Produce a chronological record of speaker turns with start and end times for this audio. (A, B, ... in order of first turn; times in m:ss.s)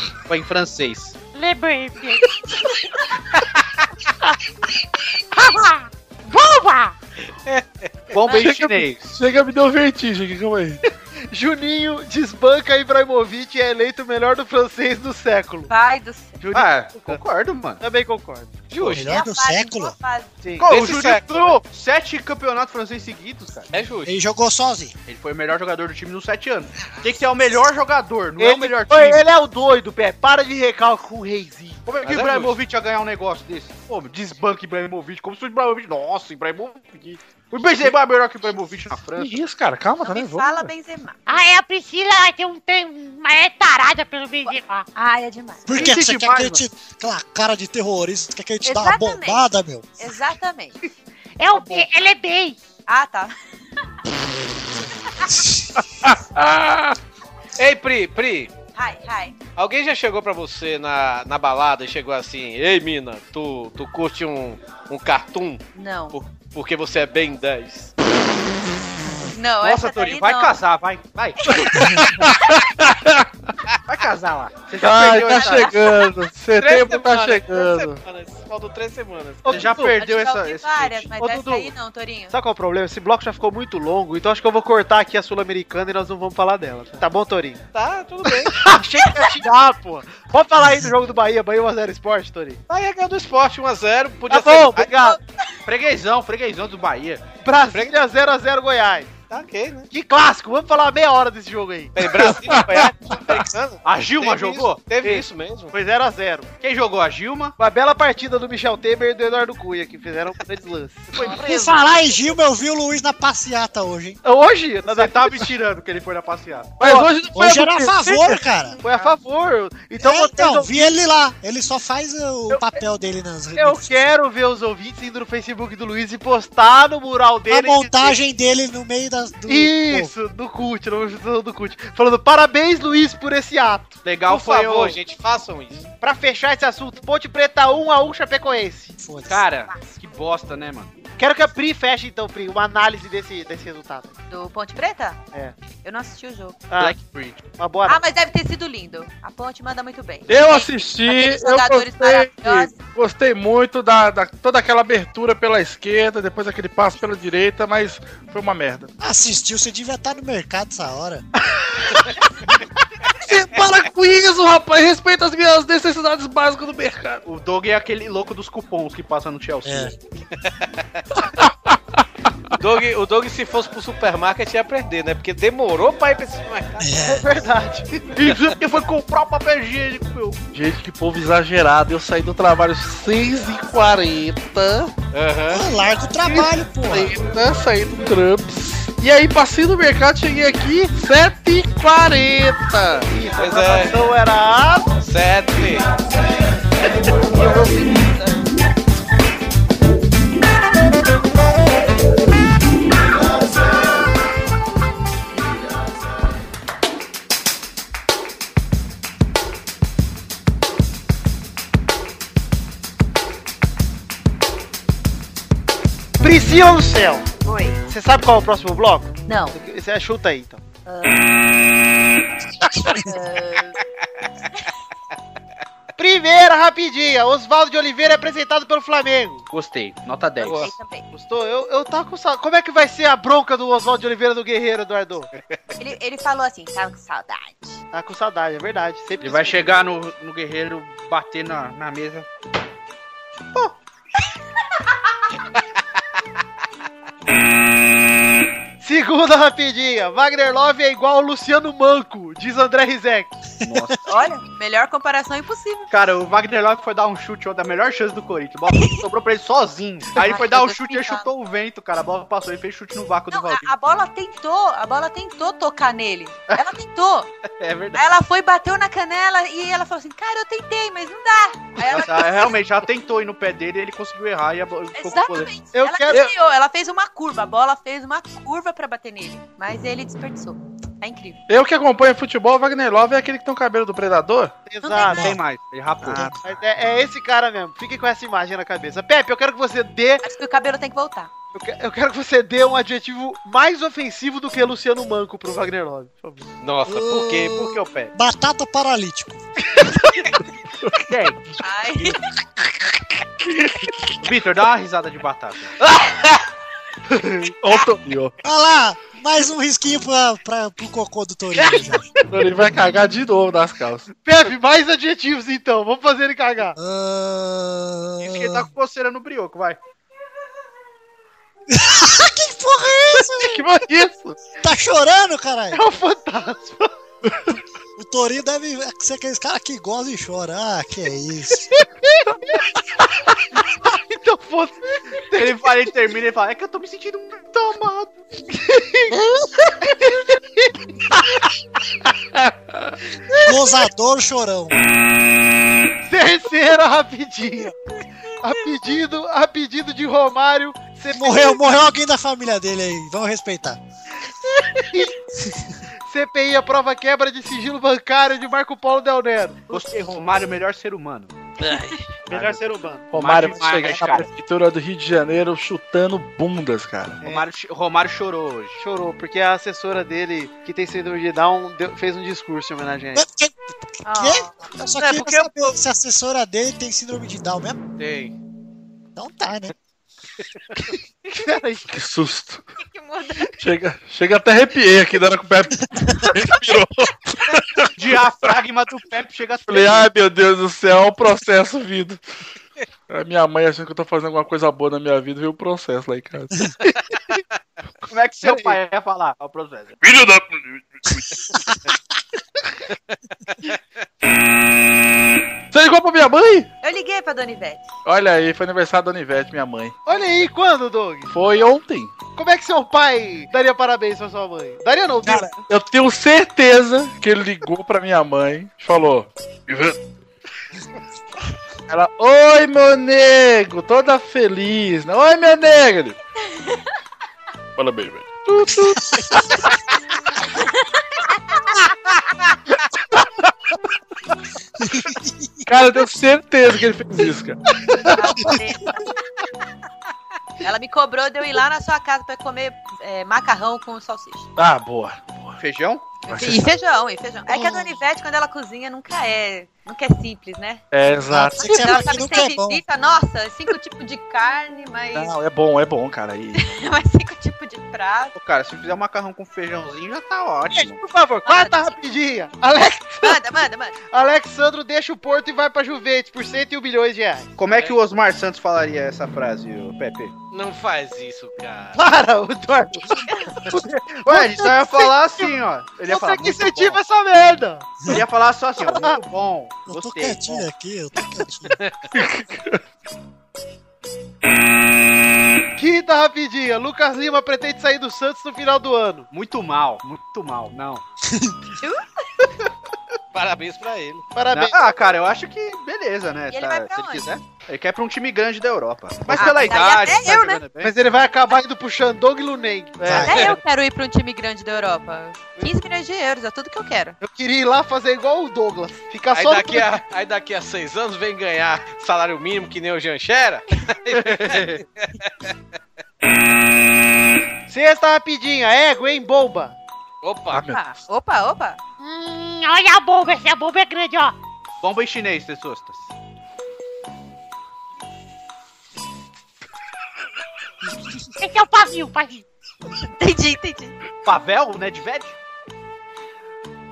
0:00.3-0:01.2 A
0:01.3-0:02.2 B
0:05.3-0:06.9 B
0:07.5-0:08.2 C
0:08.1-0:09.1 A
0:08.3-0:10.8 D
0:11.3-0:15.7 E
0:15.7-0:16.4 F
0:16.4-0:17.2 E
0:16.5-0:17.8 A
0:17.8-0:18.6 E
0:18.7-0:19.1 C
0:18.8-0:19.9 G
0:18.9-0:20.3 F
0:20.4-0:20.7 E
0:20.6-0:23.7 A
0:20.6-0:21.6 C
0:23.7-0:24.1 C
0:24.0-0:24.9 G
0:25.1-0:29.2 A
0:28.4-0:31.8 E
0:31.8-0:39.4 A
0:32.0-0:32.5 C
0:39.2-0:40.7 D
0:40.0-0:41.2 F
0:41.3-0:44.8 B
0:44.9-0:45.7 F
0:45.7-0:49.9 G
0:45.7-0:46.6 A
0:48.6-0:49.5 F
0:50.0-0:50.8 F
0:51.4-0:52.6 B
0:51.5-0:51.8 F
0:52.9-0:53.3 F
0:56.0-0:57.0 D
0:57.6-0:58.5 C
0:58.7-0:59.4 F
0:59.6-1:07.9 C
1:05.8-1:06.2 F
1:09.3-1:10.5 F
1:09.6-1:11.5 A
1:11.6-1:13.3 D
1:13.9-1:15.8 A
1:14.8-1:18.0 D
1:15.3-1:15.7 F
1:16.6-1:19.6 C
1:19.4-1:20.0 E
1:19.4-1:21.1 A
1:19.8-1:22.3 F
1:21.2-1:21.7 E
1:22.3-1:27.6 E
1:27.7-1:28.6 C
1:28.2-1:32.6 E
1:32.7-1:35.1 C
1:34.3-1:35.2 E
1:35.6-1:37.2 A
1:37.4-1:39.1 E
1:39.3-1:39.9 C
1:39.9-1:42.8 E
1:41.9-1:45.7 C
1:42.4-1:42.8 D
1:43.8-1:44.9 A
1:45.0-1:46.5 E
1:46.6-1:47.5 A
1:47.6-1:51.7 E
1:51.1-1:51.4 A
1:51.2-1:54.2 G
1:54.2-1:55.5 E
1:54.8-1:56.8 A
1:56.8-1:58.2 D
1:56.8-1:57.1 E
1:57.3-1:58.8 G
1:58.2-2:00.9 E
2:00.0-2:04.1 G
2:02.5-2:02.8 E
2:03.6-2:08.2 E
2:07.5-2:10.1 G
2:09.5-2:14.0 E
2:14.0-2:15.0 A
2:14.3-2:15.9 C
2:16.0-2:19.0 E
2:19.0-2:19.5 G
2:19.3-2:20.9 A
2:21.2-2:24.1 E
2:24.3-2:25.2 F
2:25.8-2:26.6 F
2:26.7-2:26.9 E
2:26.8-2:27.4 A
2:27.6-2:28.0 E
2:27.8-2:32.7 F
2:30.3-2:38.9 D
2:39.0-2:41.2 G
2:43.2-2:47.2 D
2:47.2-2:49.9 A
2:49.6-2:49.9 G
2:51.4-2:52.0 D
2:52.6-2:57.0 C
2:56.8-2:57.4 G
2:57.0-2:58.2 E
2:58.2-3:00.4 A
3:00.5-3:04.9 D
3:05.1-3:05.7 C
3:05.5-3:07.1 G
3:06.4-3:13.1 D
3:13.1-3:14.9 E
3:13.4-3:14.0 C
3:15.0-3:15.9 C
3:36.2-3:37.3 E
3:37.4-3:37.8 F
3:37.9-3:40.6 E
3:39.3-3:39.6 F
3:40.8-3:41.2 F
3:42.9-3:43.8 F
3:46.0-3:49.4 E
3:49.5-3:50.7 A
3:50.4-3:51.0 F
3:50.4-3:50.7 C
3:51.1-3:55.3 E
3:55.8-3:57.8 F
3:57.9-3:59.8 E
3:59.2-4:02.2 A
4:08.8-4:13.4 E
4:13.6-4:14.0 A
4:14.0-4:15.9 F
4:15.9-4:23.7 A
4:18.7-4:19.0 F
4:20.2-4:21.3 F
4:23.3-4:27.3 F
4:27.6-4:28.0 A
4:27.9-4:32.5 F
4:31.9-4:35.5 A
4:34.9-4:41.4 F
4:35.7-4:36.3 E
4:41.5-4:44.5 D
4:44.6-4:45.3 E
4:44.8-4:45.2 F
4:45.0-4:46.6 A
4:46.0-4:46.4 D
4:46.4-4:50.2 E
4:50.2-4:51.3 F
4:51.5-4:56.5 E
4:56.6-4:58.1 C
4:56.8-4:59.4 G
5:01.1-5:01.6 A
5:01.6-5:02.2 F
5:03.5-5:04.1 D
5:04.2-5:05.7 A
5:07.1-5:07.5 E
5:07.6-5:08.3 D
5:08.4-5:12.1 G
5:12.3-5:14.1 D
5:14.2-5:16.8 E
5:16.8-5:18.7 G
5:18.2-5:19.8 A
5:21.7-5:23.7 G
5:23.4-5:24.4 D
5:24.6-5:25.9 G
5:25.7-5:26.9 E
5:28.0-5:31.8 G
5:31.8-5:32.6 E
5:33.8-5:35.6 E
5:35.3-5:38.1 A
5:38.5-5:39.2 E
5:39.8-5:40.7 E
5:42.4-5:42.9 D
5:43.4-5:44.8 G
5:46.1-5:47.8 E
5:48.4-5:51.7 E
5:51.1-5:53.8 G
5:54.9-5:55.1 E
5:56.1-5:59.7 E
5:59.7-6:01.3 A
6:01.6-6:02.0 D
6:02.3-6:04.3 A
6:02.3-6:03.1 E
6:03.1-6:07.2 D
6:07.2-6:08.8 A
6:08.8-6:13.2 E
6:13.1-6:17.8 G
6:14.0-6:14.5 F
6:15.0-6:15.5 E
6:18.0-6:18.3 C
6:19.2-6:19.7 G
6:21.3-6:21.9 E
6:21.9-6:22.6 D
6:22.8-6:23.5 F
6:23.6-6:27.9 D
6:25.9-6:26.2 G
6:28.0-6:30.1 A
6:29.7-6:32.2 D
6:33.1-6:36.7 D
6:36.8-6:37.4 E
6:38.0-6:40.0 A
6:38.4-6:38.8 E
6:40.0-6:41.5 D
6:43.1-6:43.8 C
6:45.7-6:46.7 D
6:46.8-6:47.9 F
6:48.0-6:50.0 D
6:50.0-6:51.3 E
6:51.3-6:52.1 D
6:52.4-6:55.5 E
6:55.2-7:00.0 D
7:01.9-7:06.2 D
7:06.5-7:06.8 F
7:07.8-7:09.7 D
7:10.6-7:11.6 F
7:14.8-7:15.5 G
7:15.6-7:18.5 D
7:18.1-7:19.1 F
7:20.6-7:24.4 F
7:24.6-7:25.6 D
7:25.6-7:26.1 A
7:26.3-7:26.7 D
7:26.3-7:30.8 F
7:27.5-7:28.0 G
7:30.9-7:31.7 D
7:31.3-7:32.8 G
7:31.6-7:35.4 F
7:35.1-7:36.6 D
7:36.5-7:38.3 F
7:38.3-7:41.0 A
7:40.7-7:43.4 E
7:41.4-7:42.0 F
7:43.2-7:44.0 F
7:44.1-7:47.5 E
7:47.6-7:50.3 A
7:50.5-7:52.0 C
7:51.9-7:55.5 E
7:53.7-7:57.0 A
7:56.1-7:58.2 E
7:58.1-8:00.7 A
7:58.8-7:59.2 E
7:59.9-8:01.8 G
8:01.8-8:02.1 C
8:02.1-8:02.8 D
8:05.8-8:09.3 E
8:09.3-8:11.0 A
8:13.3-8:14.3 C
8:14.3-8:14.8 E
8:14.5-8:20.9 A
8:16.5-8:17.2 F
8:19.3-8:19.6 E
8:19.4-8:20.6 F
8:20.8-8:23.3 E
8:23.0-8:23.4 A
8:23.0-8:23.5 G
8:23.2-8:27.2 F
8:23.3-8:23.5 C
8:27.2-8:30.0 E
8:29.3-8:35.5 C
8:34.1-8:34.8 A
8:37.7-8:39.8 E
8:40.2-8:40.7 C
8:40.5-8:40.8 D
8:40.7-8:41.8 F
8:42.0-8:44.3 B
8:44.8-8:46.1 A
8:51.4-8:52.4 B
8:53.0-8:54.0 F
8:54.2-8:55.4 A